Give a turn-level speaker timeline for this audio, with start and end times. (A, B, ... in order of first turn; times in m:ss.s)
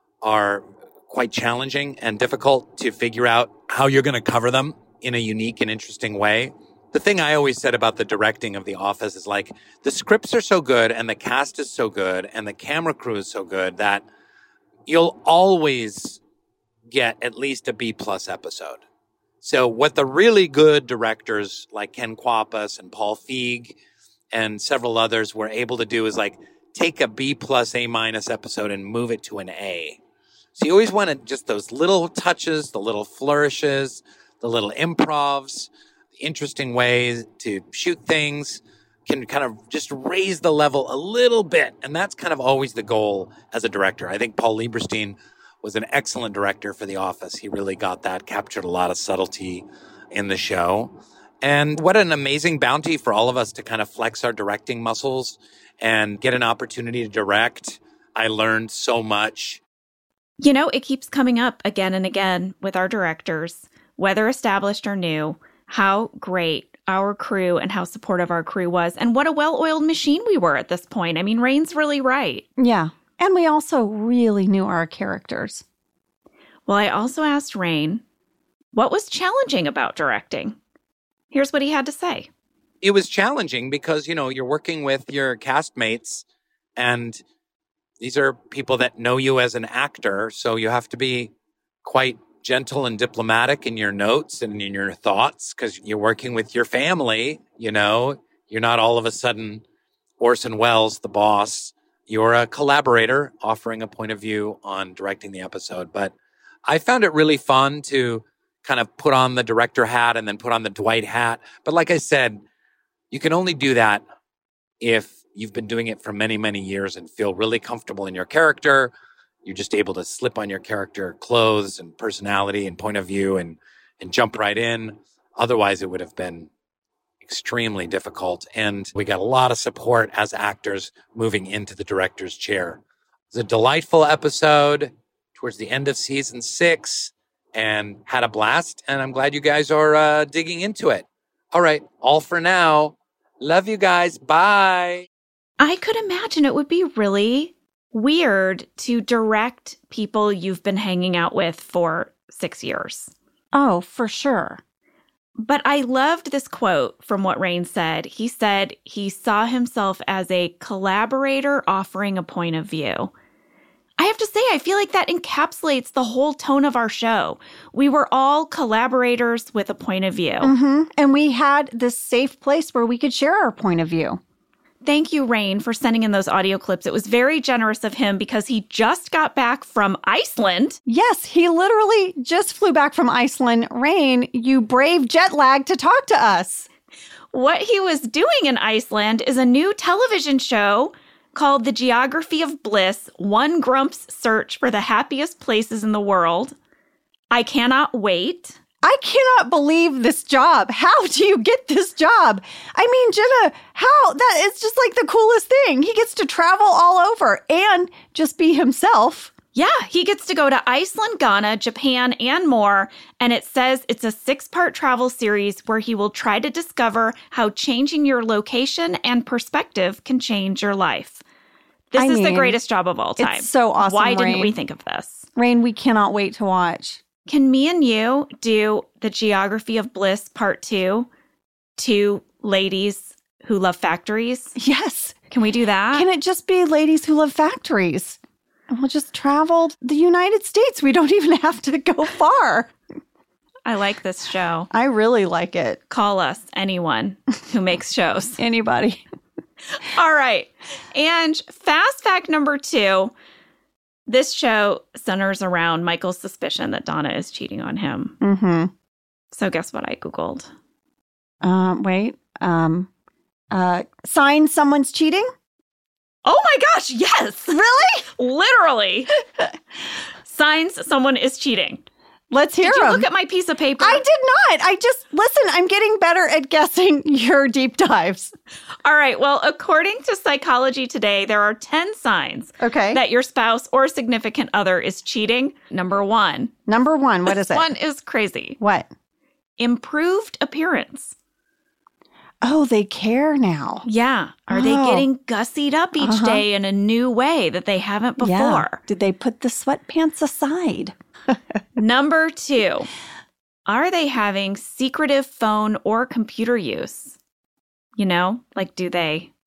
0:00.2-0:14.0 A
0:14.9-0:16.2 A
0:16.9-0:18.8 A
0:19.4-0:23.8 A
0:24.3-0:30.0 A
0:30.6-0:59.6 A
1:00.4-1:12.5 B
1:12.6-1:15.6 C
1:16.7-1:18.0 B
1:18.7-1:20.6 B
1:21.3-1:22.3 B
1:22.8-1:26.2 A
1:26.8-1:27.2 A
1:28.0-1:31.3 A
1:31.8-1:39.6 A
1:40.2-1:46.1 A
1:46.7-1:52.4 A
1:53.1-1:54.0 A
1:54.8-1:58.9 A
1:59.4-2:06.5 A
2:07.2-2:12.8 A
2:13.3-2:25.1 A
2:25.6-2:33.1 B
2:33.5-2:34.6 C
2:35.4-2:43.1 B
2:44.0-2:50.5 B
2:50.4-2:54.2 C
2:54.8-3:00.8 B
3:00.9-3:06.7 C
3:07.3-3:16.6 B
3:17.3-3:18.6 B
3:18.8-3:29.3 C
3:29.5-3:41.2 B
3:41.9-3:45.3 B
3:41.9-3:42.6 C
3:43.2-3:44.5 C
3:45.4-3:47.0 C
3:47.3-3:51.1 B
3:51.8-3:54.6 B
3:54.6-3:55.2 C
3:55.3-3:56.1 B
3:55.9-3:58.2 C
3:58.7-4:02.7 C
4:03.6-4:04.7 B
4:04.7-4:05.8 C
4:05.9-4:08.4 B
4:08.4-4:09.0 C
4:09.8-4:13.1 B
4:14.1-4:18.2 B
4:18.2-4:18.7 C
4:19.3-4:20.5 B
4:21.4-4:22.9 C
4:23.5-4:25.3 C
4:26.2-4:27.6 B
4:27.5-4:28.1 C
4:28.2-4:29.1 B
4:30.2-4:31.8 B
4:32.3-4:33.1 C
4:32.6-4:34.0 B
4:33.8-4:38.3 C
4:38.8-4:46.5 B
4:42.6-4:43.0 C
4:46.7-4:47.7 C
4:47.3-4:48.6 B
4:48.6-4:48.9 C
4:49.6-4:51.2 B
4:52.4-4:53.9 C
4:53.8-4:58.8 B
4:54.5-4:55.1 C
4:56.0-4:56.4 C
4:58.2-5:01.4 C
5:01.8-5:02.9 B
5:03.7-5:07.2 B
5:08.0-5:09.3 B